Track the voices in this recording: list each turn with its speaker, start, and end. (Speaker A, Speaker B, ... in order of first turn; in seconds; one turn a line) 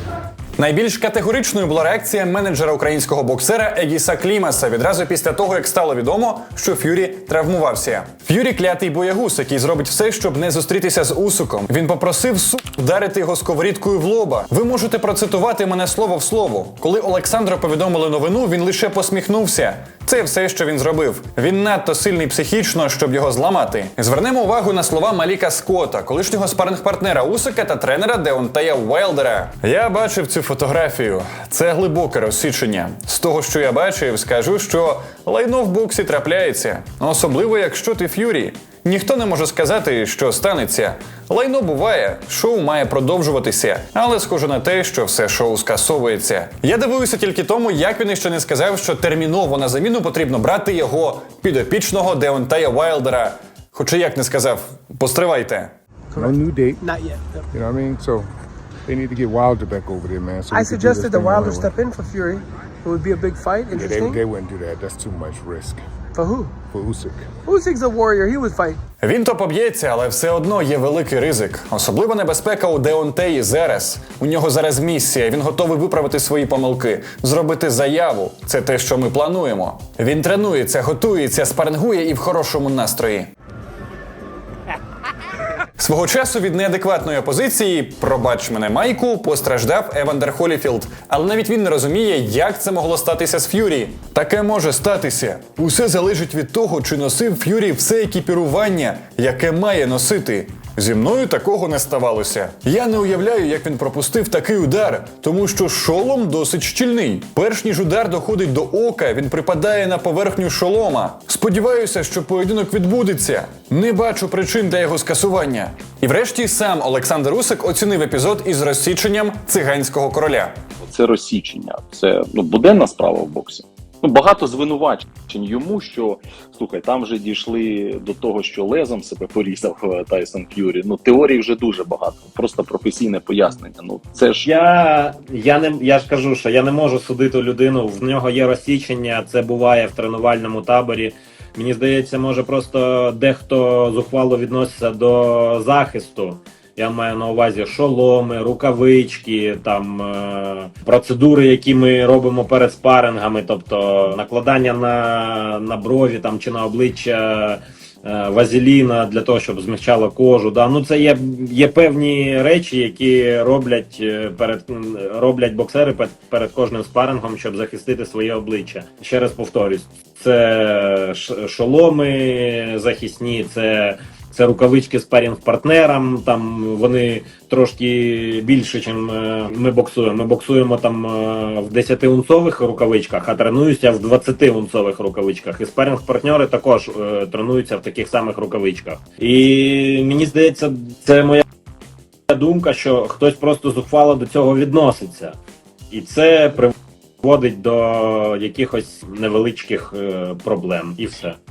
Speaker A: 0.6-55.7
Speaker B: 56.1-57.4
Speaker C: 56.2-56.8
Speaker C: 57.5-58.3
Speaker C: 58.9-61.7
Speaker B: 60.5-64.2
Speaker C: 63.7-65.8
Speaker B: 66.1-66.6
Speaker C: 66.6-67.3
Speaker B: 67.5-68.8
Speaker A: 69.0-83.3
Speaker A: 85.8-120.5
Speaker D: 120.8-134.5
Speaker E: 134.4-191.4
Speaker E: 192.3-195.3
Speaker E: 195.9-201.4